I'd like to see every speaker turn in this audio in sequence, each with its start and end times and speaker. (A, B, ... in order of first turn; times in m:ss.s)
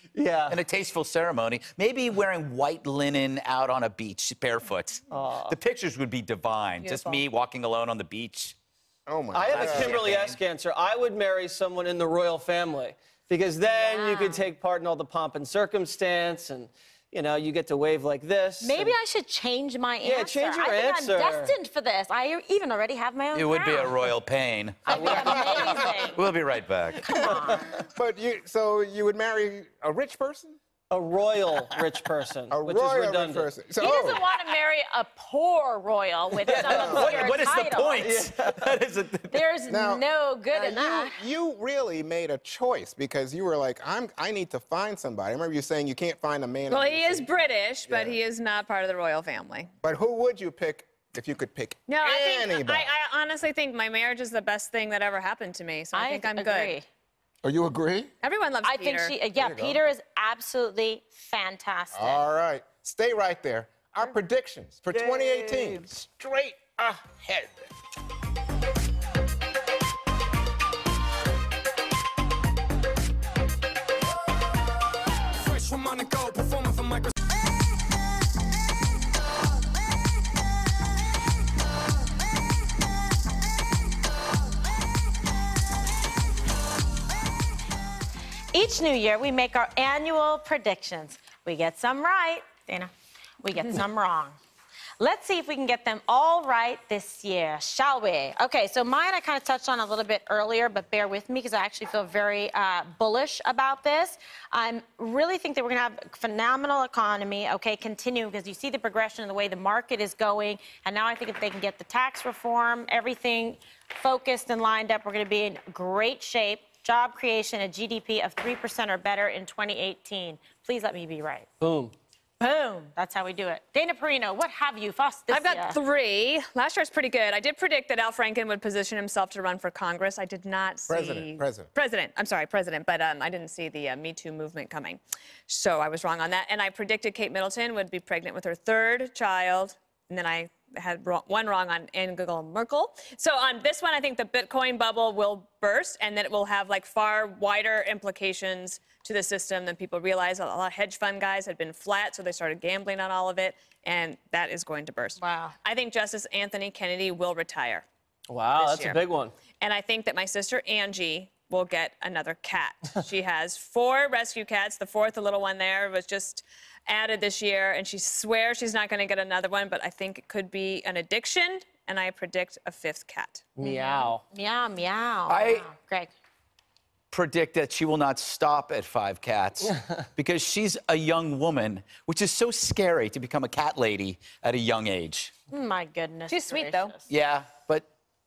0:00.1-0:00.6 A
0:00.5-0:08.5 B
0:05.1-0:05.6 A
0:06.8-0:07.2 C
0:09.1-0:10.0 D
0:09.3-0:19.0 A
0:09.5-0:10.4 B
0:13.6-0:14.5 E
0:18.6-0:24.1 E
0:20.0-0:21.5 A
0:23.3-0:27.3 B
0:24.8-0:26.3 E
0:24.9-0:25.4 A
0:25.0-0:26.0 D
0:26.9-0:27.7 E
0:27.6-0:30.6 D
0:30.9-0:33.4 A
0:32.5-0:34.2 D
0:33.8-0:38.1 E
0:36.4-0:39.4 B
0:36.7-0:37.2 D
0:38.0-0:38.7 A
0:39.3-0:41.2 E
0:39.7-0:47.3 D
0:46.7-0:49.7 C
0:47.9-0:48.2 D
0:49.8-0:52.9 D
0:51.9-0:56.7 C
0:55.9-0:56.9 E
0:57.4-0:58.1 D
0:58.2-0:59.1 C
0:58.6-1:02.2 E
0:59.4-0:59.8 D
1:01.9-1:07.7 D
1:04.9-1:05.8 B
1:28.5-1:34.4 E
1:35.0-2:01.5 E
2:01.6-2:01.9 A
2:02.4-2:05.8 E
2:05.3-2:37.8 C
2:10.9-2:11.7 D
2:35.2-2:35.5 E
2:38.3-2:39.3 A
2:38.6-2:39.0 C
2:39.6-2:53.5 C
2:53.6-2:54.2 A
2:53.6-2:56.1 E
2:55.3-2:55.7 B
2:57.1-3:05.3 B
3:05.5-3:07.0 E
3:06.3-3:06.9 C
3:07.1-3:07.8 B